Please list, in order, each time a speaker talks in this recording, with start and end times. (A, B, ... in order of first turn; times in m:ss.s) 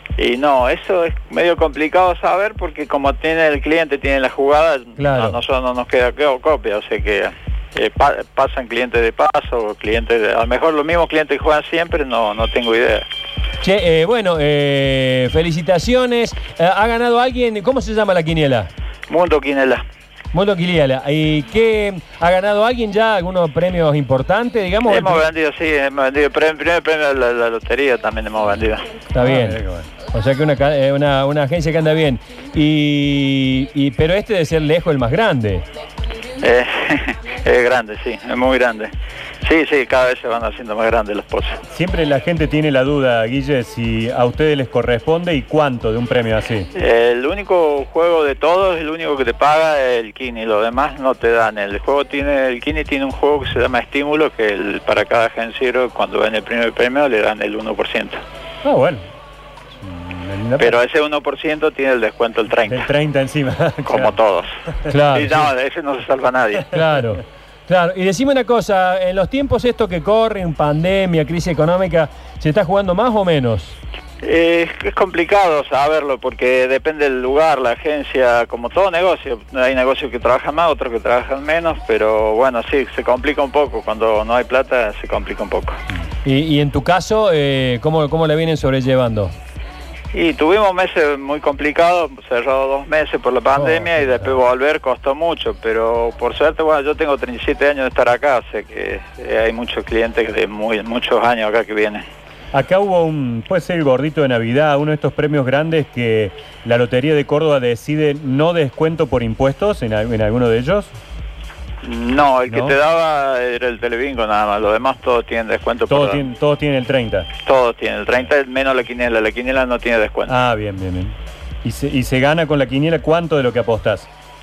0:00.2-0:13.1 A
0:05.0-0:05.4 B
0:13.6-0:18.7 B
0:19.1-0:19.8 A
0:20.3-0:25.2 B
0:24.9-0:28.9 A
0:29.1-0:35.6 B
0:29.2-0:29.9 C
0:36.4-0:38.9 A
0:39.4-0:41.6 A
0:41.7-0:46.7 C
0:46.8-0:58.2 A
0:58.6-0:59.0 C
0:59.8-1:00.8 C
1:00.6-1:02.9 A
1:02.7-1:04.2 C
1:03.9-1:04.5 A
1:04.9-1:05.4 B
1:05.1-1:06.8 A
1:06.7-1:13.8 B
1:14.2-1:25.8 A
1:26.2-1:29.3 B
1:30.1-1:42.0 A
1:33.6-1:34.3 B
1:42.5-1:50.9 C
1:51.8-1:56.2 A
1:52.5-1:52.8 C
1:55.9-1:57.3 C
1:57.4-2:00.4 A
2:00.3-2:04.1 C